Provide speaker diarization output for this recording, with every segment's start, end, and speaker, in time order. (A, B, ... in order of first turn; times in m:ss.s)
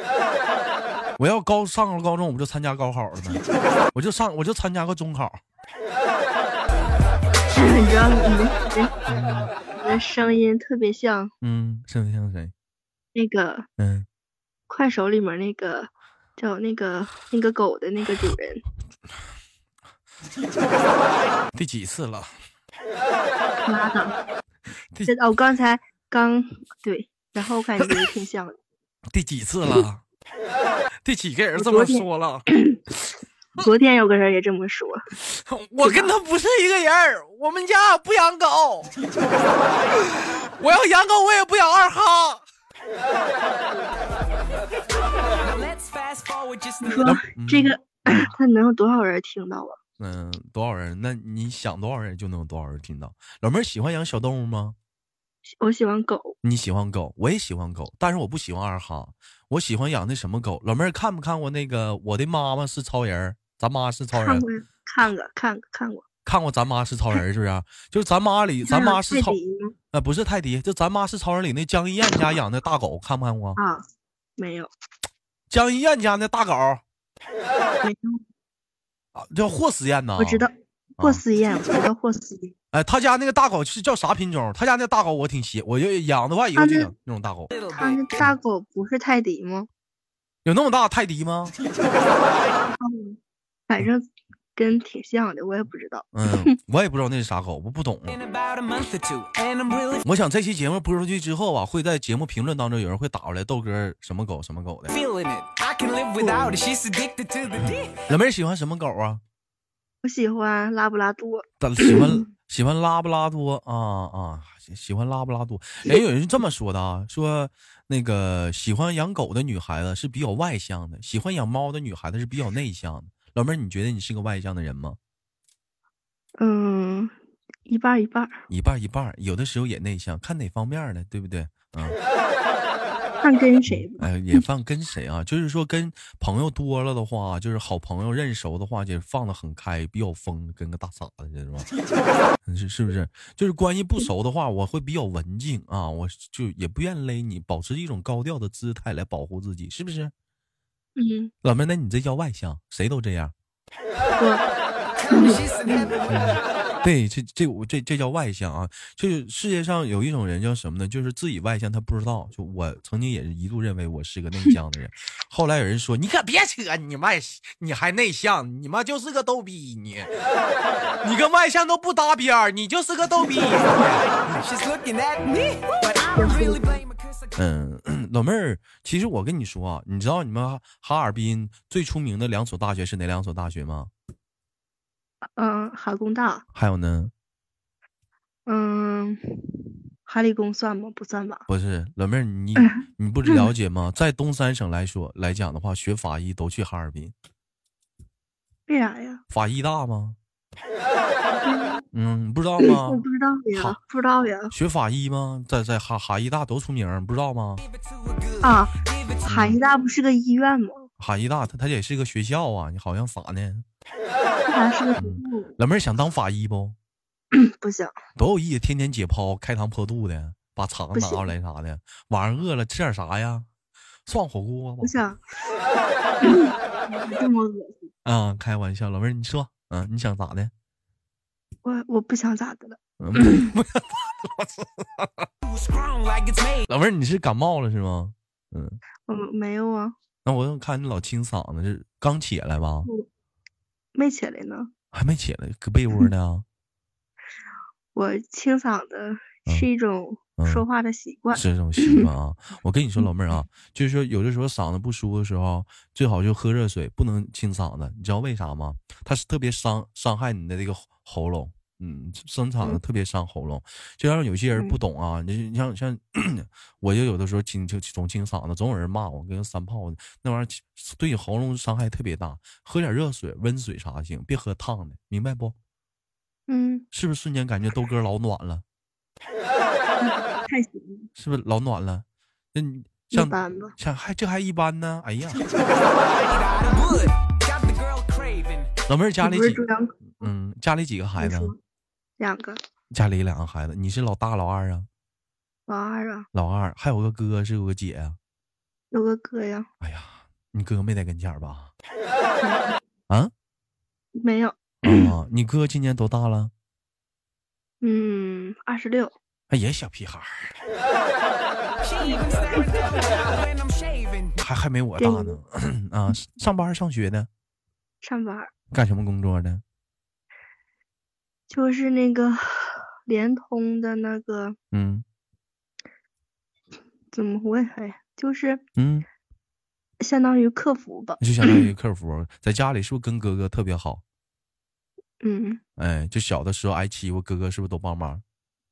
0:01.2-0:03.4 A
0:03.9-0:05.4 A
0:07.5-0:08.9 B
0:09.1-0:09.5 A
0:09.7-0:11.3 B
0:11.4-0:12.5 A
0:13.2-0:13.7 B
0:13.8-0:14.1 A
0:14.7-0:18.6 B
0:21.5-0:22.3 A
0:23.6-0:24.2 B
0:25.1-0:28.6 B
0:29.1-0:30.0 A
0:31.0-0:32.5 A
0:31.6-0:32.8 B
0:33.6-0:35.0 B
0:35.3-0:38.9 A
0:35.8-0:36.1 B
0:40.6-0:42.4 A
0:45.4-0:47.1 C
0:46.8-0:49.8 B
0:47.0-0:48.3 A
0:50.0-0:54.8 A
0:55.5-0:56.4 B
0:56.4-1:04.4 A
1:04.1-1:06.0 B
1:06.2-1:09.4 A
1:08.6-1:09.8 B
1:09.9-1:13.6 A
1:13.6-1:13.8 B
1:14.4-1:14.7 B
1:15.5-1:16.8 A
1:17.8-1:18.2 B
1:19.2-1:20.5 A
1:20.2-1:22.5 B
1:22.7-1:27.5 A
1:26.6-1:26.9 B
1:27.7-1:29.7 B
1:30.4-1:31.6 A
1:32.7-1:33.2 B
1:33.7-1:36.5 B
1:36.1-1:38.2 A
1:38.1-1:40.0 C
1:40.0-1:44.9 A
1:44.9-1:48.0 C
1:47.6-1:49.2 A
1:50.0-1:52.3 B
1:51.6-2:05.0 A
2:06.4-2:07.1 B
2:07.7-2:08.4 B
2:08.5-2:12.0 A
2:13.2-2:14.4 B
2:13.7-2:21.7 A
2:22.4-2:30.1 A
2:31.0-2:31.3 B
2:31.4-2:33.3 A
2:34.2-2:34.4 B
2:35.1-2:36.0 B
2:35.1-2:36.0 C
2:36.1-2:50.1 A
2:51.0-2:54.4 A
2:54.3-2:57.4 C
2:56.2-2:56.8 B
2:57.4-3:03.9 A
3:05.4-3:06.4 B
3:06.5-3:07.1 A
3:08.5-3:11.4 B
3:11.5-3:17.1 A
3:12.6-3:13.5 B
3:18.7-3:19.2 B
3:19.3-3:20.2 A
3:21.3-3:21.8 B
3:21.9-3:23.8 A
3:22.6-3:24.5 B
3:24.5-3:27.6 A
3:27.6-3:29.3 C
3:28.4-3:28.7 B
3:29.3-3:29.6 A
3:29.3-3:30.9 B
3:31.0-3:33.6 A
3:34.5-3:35.6 B
3:35.0-3:36.8 A
3:37.3-3:37.9 B
3:38.2-3:43.5 A
3:40.9-3:41.3 B
3:44.1-3:45.0 A
3:44.8-3:45.2 B
3:46.2-3:47.9 B
3:48.0-3:50.5 A
3:51.6-3:53.5 B
3:53.0-3:55.3 A
3:55.4-3:56.7 C
3:56.7-3:58.8 A
3:59.1-4:00.0 B
4:00.2-4:02.9 A
4:04.0-4:04.7 B
4:04.9-4:06.4 A
4:08.0-4:12.1 B
4:10.4-4:10.6 A
4:11.3-4:35.6 A
4:24.6-4:24.8 B
4:36.5-4:36.8 B
4:36.9-4:38.6 A
4:40.0-4:41.1 B
4:41.2-4:45.4 A
4:43.1-4:43.8 B
4:46.1-4:48.7 C
4:48.9-4:51.5 A
4:49.2-4:50.3 B
4:51.2-4:51.6 B
4:52.2-4:52.6 B
4:52.9-4:54.9 A
4:55.7-4:56.3 B
4:56.3-4:58.2 A
4:58.9-4:59.7 B
4:59.8-5:01.7 A
5:02.4-5:02.8 B
5:04.2-5:05.1 B
5:04.8-5:06.5 A
5:07.8-5:09.2 B
5:09.5-5:10.5 A
5:11.8-5:14.4 C
5:14.4-5:17.3 A
5:15.0-5:15.4 B
5:18.0-5:18.5 B
5:18.7-5:19.6 A
5:21.5-5:24.6 B
5:24.7-5:25.0 A
5:27.1-5:28.6 B
5:28.8-5:29.1 A
5:30.0-5:31.6 B
5:31.2-5:34.0 A
5:35.2-5:35.6 B
5:35.8-5:38.2 A